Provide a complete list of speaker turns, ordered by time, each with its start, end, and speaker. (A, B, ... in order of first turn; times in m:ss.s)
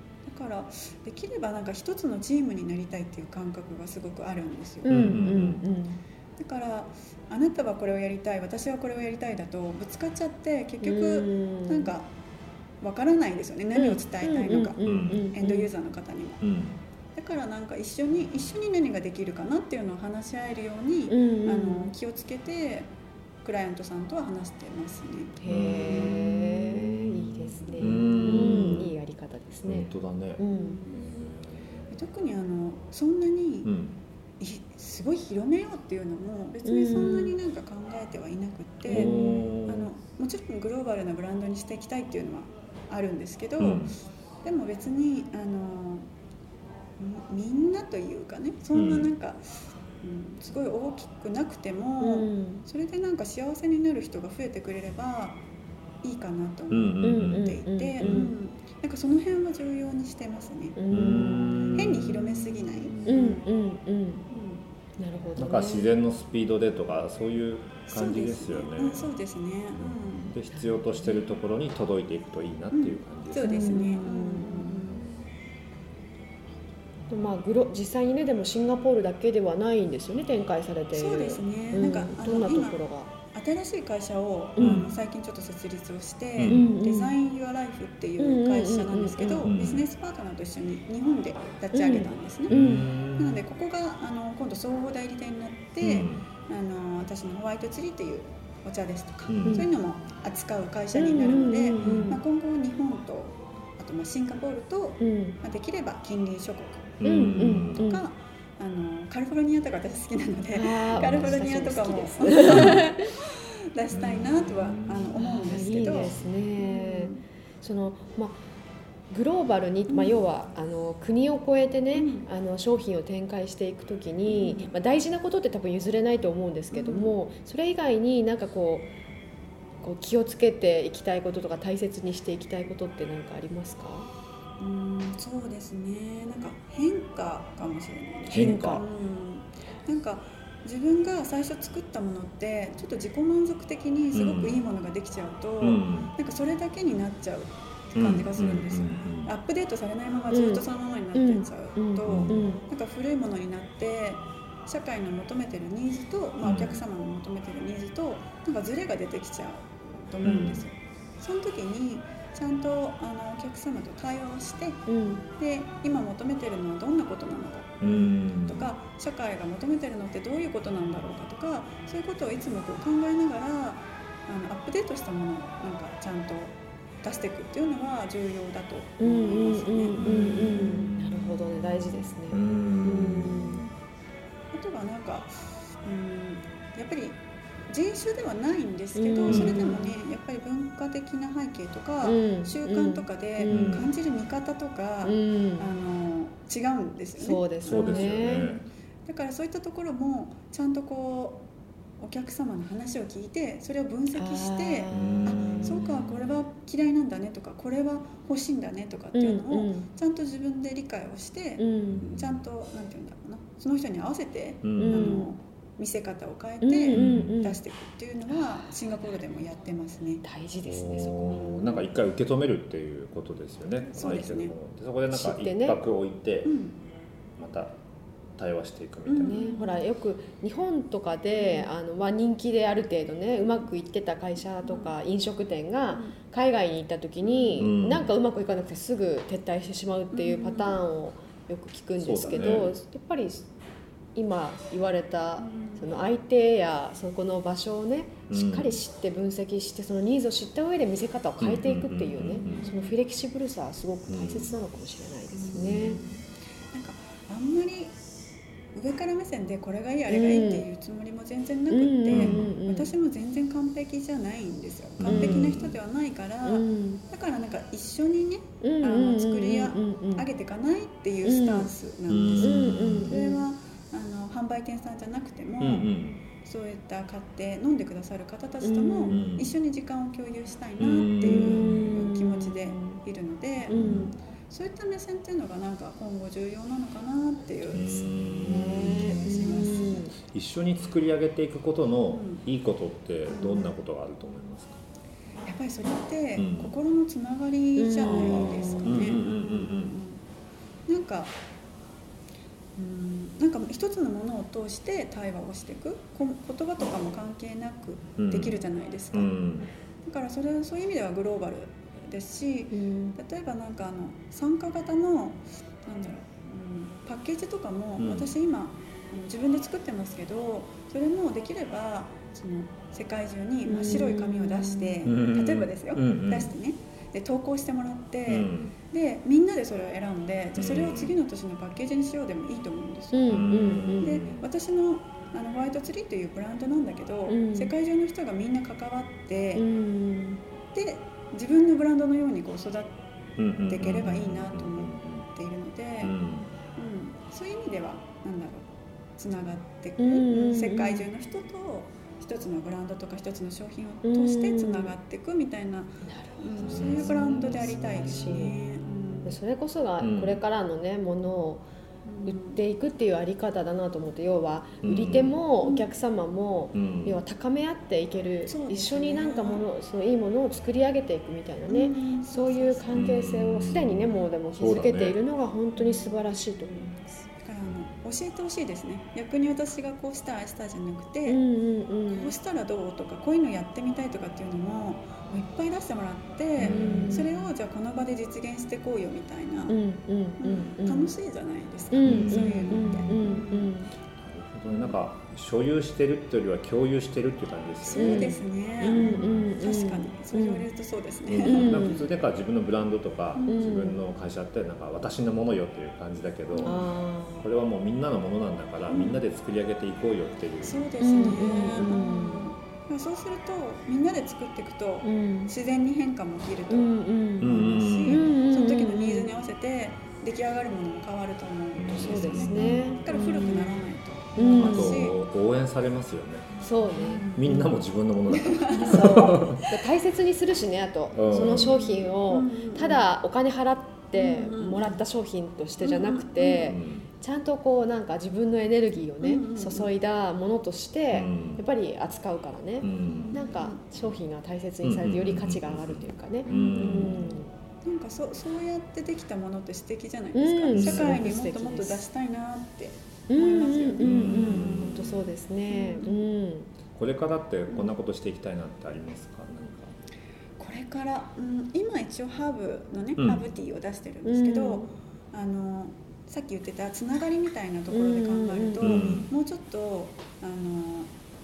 0:00.2-0:05.3 A
0:04.8-0:06.0 B
0:04.9-0:05.6 C
0:06.4-0:12.1 A
0:10.8-0:11.9 B
0:12.8-0:16.4 A
0:13.8-0:15.7 B
0:14.8-0:15.3 C
0:16.4-0:16.8 C
0:17.2-0:22.9 A
0:21.1-0:21.9 B
0:23.4-0:25.4 A
0:25.4-0:30.8 B
0:25.4-0:28.9 C
0:28.0-0:28.8 A
0:29.7-0:31.9 C
0:30.5-0:31.3 A
0:31.9-0:33.7 A
0:33.6-0:34.0 C
0:34.4-0:46.1 A
0:36.6-0:37.4 B
0:38.9-0:39.9 C
0:38.9-0:39.4 B
0:43.6-0:44.0 C
0:47.0-0:49.4 A
0:48.7-0:49.1 C
0:50.0-0:55.4 A
0:52.0-0:52.6 B
0:56.0-1:03.4 A
0:56.7-0:58.3 C
0:57.0-0:58.3 B
1:00.8-1:01.8 B
1:00.9-1:03.2 C
1:03.0-1:04.3 B
1:04.3-1:04.6 A
1:05.0-1:05.9 B
1:05.4-1:09.1 C
1:07.9-1:10.3 A
1:09.8-1:13.6 C
1:10.5-1:11.1 B
1:12.7-1:15.1 A
1:13.4-1:14.8 B
1:17.1-1:23.1 B
1:20.9-1:22.8 A
1:23.3-1:57.2 A
1:24.6-1:24.8 B
1:24.6-1:24.9 C
1:26.4-1:26.7 C
1:26.5-1:27.1 B
1:28.2-1:29.5 B
1:29.4-1:29.8 C
1:31.7-1:32.8 B
1:32.5-1:33.4 C
1:35.8-1:36.2 C
1:39.3-1:39.6 C
1:40.9-1:42.2 B
1:41.8-1:42.1 C
1:45.0-1:45.4 B
1:47.0-1:47.9 C
1:47.0-1:48.1 B
1:50.5-1:53.0 B
1:50.9-1:51.3 C
1:52.5-1:52.8 C
1:53.9-1:55.0 C
1:55.2-1:58.4 B
1:59.1-2:08.9 B
1:59.9-2:00.2 A
2:01.9-2:02.3 A
2:04.3-2:04.7 A
2:06.7-2:07.2 A
2:09.8-2:14.1 B
2:14.6-3:00.9 A
2:18.3-2:18.8 B
2:18.3-2:18.8 C
2:24.1-2:24.6 C
2:25.6-2:26.1 C
2:27.9-2:29.3 C
2:30.3-2:32.6 B
2:32.0-2:32.4 C
2:36.4-2:36.8 C
2:40.2-2:40.7 C
2:44.9-2:45.2 B
2:47.8-2:48.7 C
2:59.0-3:03.7 B
3:00.0-3:03.7 C
3:02.9-3:03.4 A
3:04.5-3:21.4 A
3:09.0-3:09.9 B
3:09.2-3:09.6 C
3:12.0-3:13.8 B
3:13.5-3:13.9 C
3:15.0-3:15.7 B
3:17.2-3:18.6 B
3:17.6-3:18.7 C
3:22.0-3:40.2 A
3:24.2-3:25.6 B
3:24.9-3:26.4 C
3:29.1-3:29.9 B
3:31.6-3:32.1 B
3:31.9-3:32.4 C
3:34.6-3:35.1 C
3:34.8-3:35.3 B
3:36.6-3:37.6 B
3:36.9-3:37.4 C
3:38.3-3:38.7 B
3:40.2-3:41.5 B
3:40.6-3:46.5 C
3:41.3-3:41.8 A
3:43.9-3:44.5 A
3:45.1-3:45.8 B
3:46.4-3:46.8 A
3:47.4-3:47.8 C
3:48.4-3:49.4 C
3:49.1-3:49.9 A
3:49.2-4:03.5 B
3:51.3-3:51.7 A
3:54.6-3:54.9 A
3:57.2-3:57.7 A
3:57.6-3:58.1 C
4:00.1-4:00.8 A
4:02.0-4:02.7 C
4:04.2-4:16.0 B
4:05.4-4:05.9 A
4:08.3-4:08.8 C
4:11.4-4:12.7 C
4:12.4-4:13.0 A
4:14.1-4:14.6 C
4:15.3-4:16.0 A
4:15.5-4:16.2 C
4:16.7-4:17.9 A
4:18.7-4:35.9 A
4:20.1-4:20.6 B
4:21.7-4:22.9 B
4:22.1-4:22.5 C
4:25.0-4:25.8 C
4:25.1-4:25.4 B
4:26.5-4:27.0 B
4:28.6-4:30.2 B
4:31.2-4:31.7 B
4:32.1-4:33.1 C
4:32.4-4:33.4 B
4:35.6-4:36.2 C
4:36.4-4:50.1 A
4:38.6-4:39.2 B
4:39.1-4:39.5 C
4:40.8-4:41.9 C
4:41.2-4:43.0 B
4:43.7-4:44.1 C
4:43.7-4:44.1 B
4:47.7-4:54.8 C
4:48.4-4:50.1 B
4:52.1-4:52.4 A
4:53.3-4:53.7 A
4:55.4-5:00.2 A
4:56.4-4:56.7 C
4:57.8-4:59.0 B
4:58.0-5:00.0 C
5:00.9-5:01.4 A
5:02.8-5:09.5 A
5:08.2-5:08.6 C
5:09.1-5:09.7 C
5:10.0-5:39.7 A
5:12.7-5:13.2 B
5:18.0-5:18.3 C
5:23.7-5:25.0 B
5:25.0-5:26.5 C
5:28.3-5:28.8 C
5:30.6-5:31.2 C
5:33.1-5:34.2 B
5:33.3-5:34.5 C
5:37.3-5:37.7 B
5:39.6-5:40.4 B
5:40.7-5:43.0 A
5:43.4-5:45.3 C
5:43.7-5:46.2 A
5:46.0-5:46.6 C
5:46.8-5:59.4 A
5:50.0-5:51.1 B
5:54.0-5:55.0 B
5:56.0-5:58.6 B
5:56.6-5:58.2 C
5:59.2-6:01.6 B
6:00.0-6:00.4 C
6:02.0-6:02.6 A
6:02.2-6:16.9 B
6:04.8-6:05.4 C
6:05.6-6:05.9 A
6:06.7-6:07.2 C
6:08.5-6:09.6 A
6:11.7-6:13.2 A
6:12.9-6:15.2 C
6:15.8-6:21.4 A
6:21.3-6:22.3 B
6:22.1-6:29.8 A
6:26.6-6:27.3 C
6:26.6-6:27.3 B
6:29.7-6:31.1 B
6:30.4-6:33.7 A
6:31.9-6:33.9 B
6:32.0-6:33.2 C
6:34.2-6:38.3 C
6:34.7-6:35.0 A
6:37.8-6:41.9 A
6:38.0-6:40.6 B
6:38.9-6:39.5 C
6:41.3-6:46.8 C
6:41.4-6:42.0 B
6:43.4-6:43.7 A
6:43.5-6:44.1 B
6:46.5-6:46.8 A
6:46.6-6:47.5 B
6:47.4-6:51.8 C
6:48.9-6:49.2 A
6:50.6-7:05.2 A
6:51.0-6:52.5 B
6:55.0-6:55.5 B
6:56.7-6:59.3 B
6:57.4-6:58.3 C
7:01.8-7:03.2 C
7:02.0-7:03.8 B
7:04.4-7:05.0 B
7:04.5-7:06.5 C
7:06.6-7:07.3 B
7:06.9-7:07.7 A
7:07.3-7:09.6 C
7:08.3-7:09.5 A
7:08.8-7:27.5 B
7:11.1-7:11.8 C
7:11.6-7:13.1 A
7:14.1-7:15.0 A
7:15.8-7:16.8 A
7:16.6-7:17.1 C
7:19.2-7:19.9 A
7:21.1-7:21.6 C
7:22.8-7:23.4 C
7:23.1-7:23.8 A
7:24.8-7:27.2 C
7:26.5-7:34.8 A
7:30.4-7:32.0 B
7:30.7-7:31.2 C
7:33.3-7:36.7 B
7:34.0-7:35.2 C
7:35.7-7:36.2 A
7:36.9-7:40.0 C
7:40.6-7:51.1 A
7:43.2-7:43.4 C
7:44.2-7:44.9 B
7:47.9-7:49.2 B
7:48.8-7:49.3 C